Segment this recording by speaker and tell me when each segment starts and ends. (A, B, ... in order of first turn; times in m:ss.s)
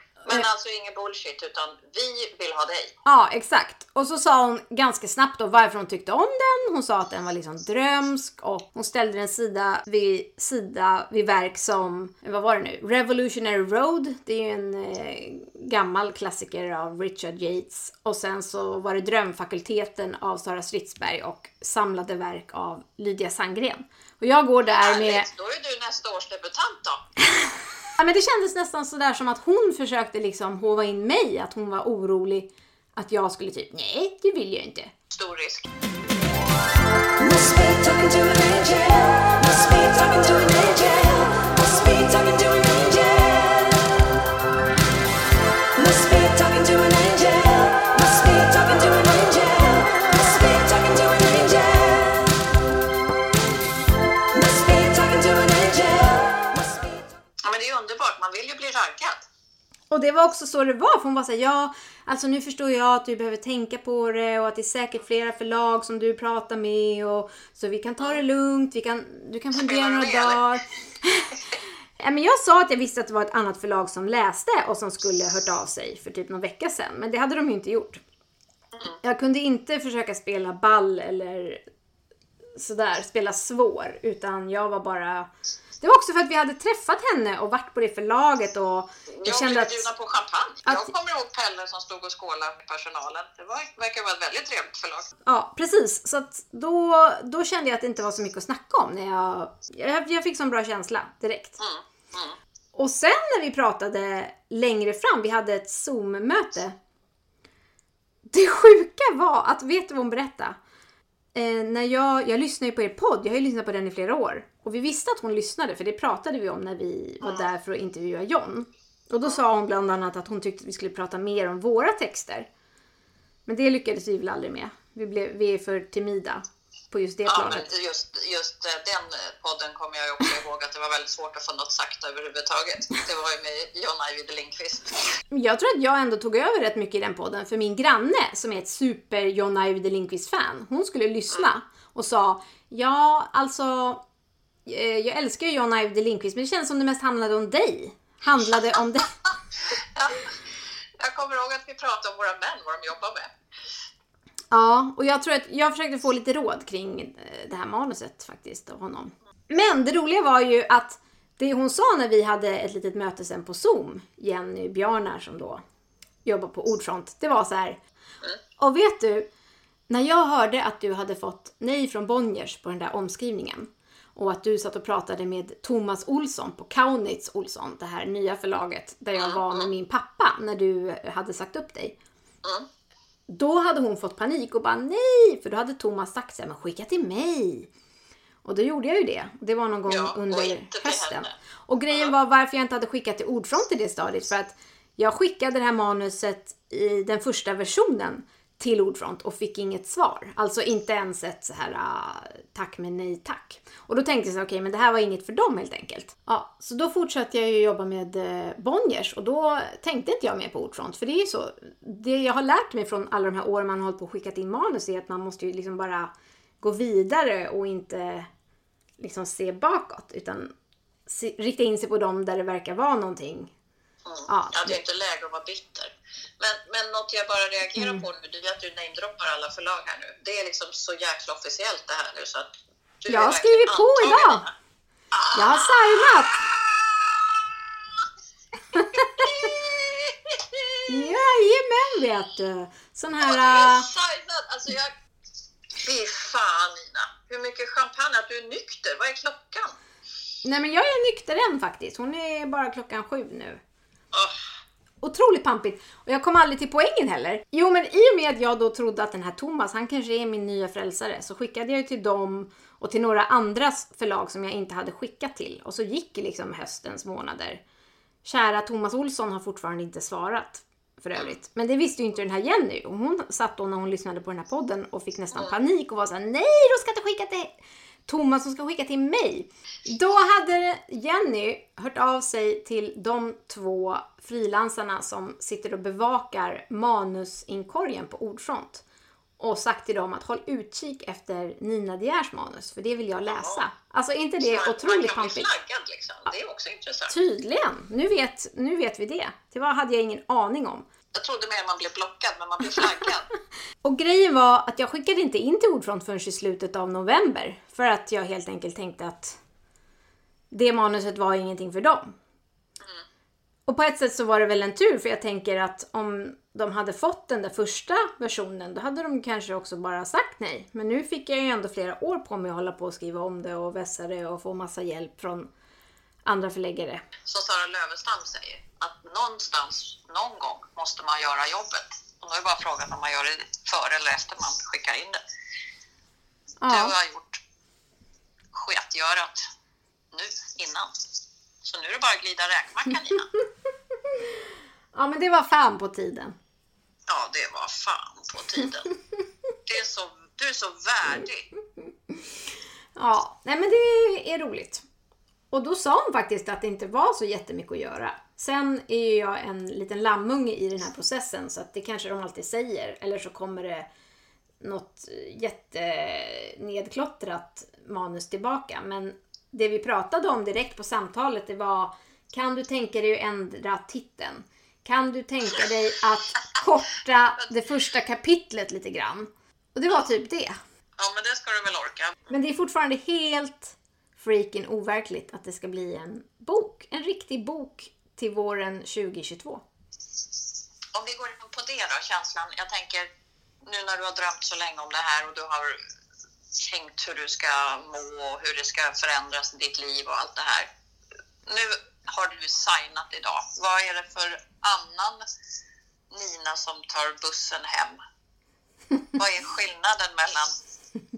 0:00.2-0:03.0 A
0:03.0-0:25.3 B
0:24.6-0:27.0 A
0:28.0-0:34.9 B
0:35.1-0:35.7 A
0:37.2-0:43.9 C
0:45.7-0:52.4 C
0:54.3-0:57.0 C
0:57.4-0:59.2 A
0:59.9-1:11.4 B
1:09.5-1:10.4 A
1:12.0-1:18.0 B
1:19.0-1:21.6 B
1:22.6-1:25.3 B
1:25.8-1:29.9 B
1:29.1-1:35.1 A
1:30.6-1:30.9 B
1:35.2-1:41.6 B
1:41.6-1:42.4 A
1:42.7-1:46.8 B
1:48.3-1:50.6 B
1:51.3-2:02.5 B
2:03.5-2:07.7 B
2:07.3-2:15.1 A
2:15.3-2:24.0 B
2:24.7-2:29.2 B
2:29.8-2:30.3 A
2:31.0-2:33.3 A
2:34.5-2:45.6 B
2:46.2-2:47.8 B
2:48.6-2:49.3 B
2:49.9-3:02.0 B
2:59.2-2:59.7 A
3:03.3-3:07.7 B
3:08.4-3:38.3 B
3:09.9-3:11.3 A
3:39.0-3:40.5 B
3:41.1-3:43.5 B
3:44.0-3:54.5 A
3:44.3-3:44.8 B
3:47.8-3:48.0 B
3:53.1-3:54.5 B
3:55.1-3:58.1 A
3:55.3-3:56.5 B
3:58.7-4:01.2 A
3:58.7-3:59.2 B
4:00.9-4:03.9 B
4:03.2-4:04.9 A
4:05.8-4:09.8 A
4:10.4-4:13.6 B
4:14.1-4:14.4 A
4:15.0-4:27.6 B
4:28.2-4:37.5 B
4:38.1-4:48.8 B
4:49.4-4:55.5 B
4:53.3-4:53.6 A
4:54.5-4:57.2 A
4:57.1-5:00.9 B
5:01.1-5:03.3 A
5:03.8-5:09.4 B
5:10.5-5:12.2 B
5:13.7-5:25.5 B
5:26.2-5:27.1 B
5:27.2-5:35.2 A
5:36.6-5:37.0 B
5:36.7-5:37.4 A
5:38.5-5:39.4 A
5:40.1-5:40.9 A
5:41.6-5:43.3 A
5:44.1-5:46.4 B
5:47.1-5:48.9 A
5:49.7-5:51.5 A
5:53.0-5:54.8 B
5:55.5-6:03.9 B
6:04.6-6:20.6 B
6:21.0-6:22.3 A
6:22.3-6:29.6 B
6:30.9-6:33.1 A
6:33.6-6:35.8 A
6:36.6-6:40.7 A
6:41.5-6:45.2 A
6:46.1-6:48.0 A
6:49.2-6:50.6 A